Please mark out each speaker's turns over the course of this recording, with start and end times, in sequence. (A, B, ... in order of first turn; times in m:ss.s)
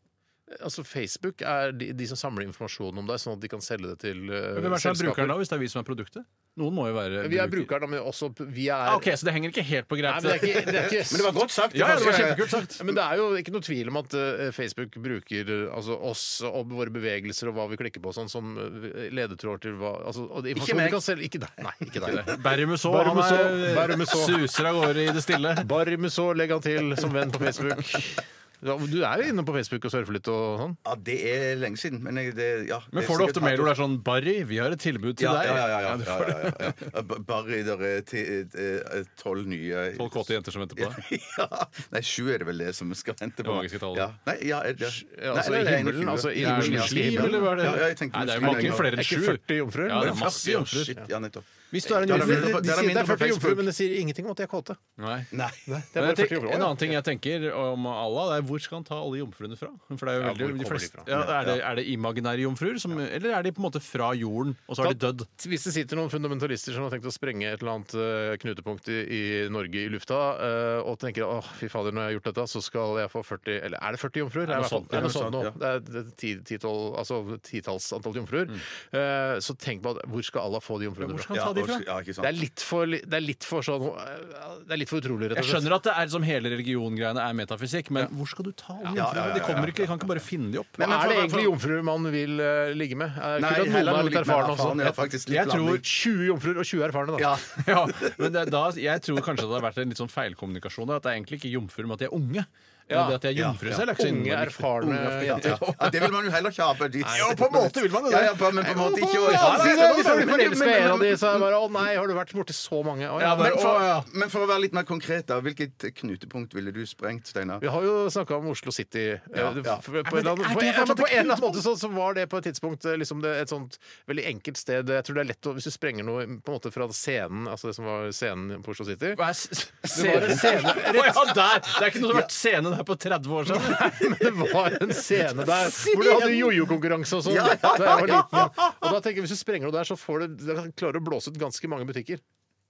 0:00.5-0:05.4 A
0:04.6-0:07.7 B
0:07.2-0:09.1 A
0:08.8-0:11.0 B
0:10.0-0:24.5 A
0:10.8-0:12.7 C
0:11.7-0:12.8 B
0:20.6-0:21.0 C
0:22.0-0:25.7 B
0:25.6-0:30.8 A
0:30.8-0:33.7 C
0:32.9-0:36.9 B
0:35.2-0:48.9 C
0:40.0-0:41.0 B
0:43.4-0:44.1 B
0:44.8-0:51.0 A
0:46.4-0:51.0 B
0:50.0-0:53.7 C
0:51.7-0:52.6 B
0:51.8-0:54.8 A
0:55.0-0:55.3 B
0:55.3-0:55.7 C
0:55.7-0:56.9 A
0:56.0-1:05.3 B
1:00.2-1:01.1 A
1:01.1-1:01.6 C
1:04.8-1:21.3 A
1:14.5-1:15.2 B
1:14.5-1:15.6 C
1:21.0-1:21.8 B
1:21.3-1:22.4 C
1:22.2-1:25.7 A
1:25.3-1:30.8 B
1:28.9-1:29.9 C
1:30.8-1:31.6 C
1:30.8-1:35.0 A
1:33.4-1:35.8 C
1:35.3-1:35.8 B
1:35.7-1:37.4 A
1:37.2-1:38.3 C
1:37.5-1:45.9 B
1:42.9-1:45.7 A
1:43.4-1:43.8 C
1:44.8-1:51.5 C
1:47.1-1:47.8 A
1:47.1-1:50.4 B
1:48.6-1:53.8 A
1:53.2-1:54.1 B
1:53.4-1:57.6 C
1:57.6-2:09.2 A
1:59.4-1:59.8 C
2:00.1-2:01.6 B
2:09.1-2:14.7 B
2:09.9-2:11.8 A
2:13.5-2:22.2 A
2:15.3-2:16.5 B
2:17.2-2:18.7 C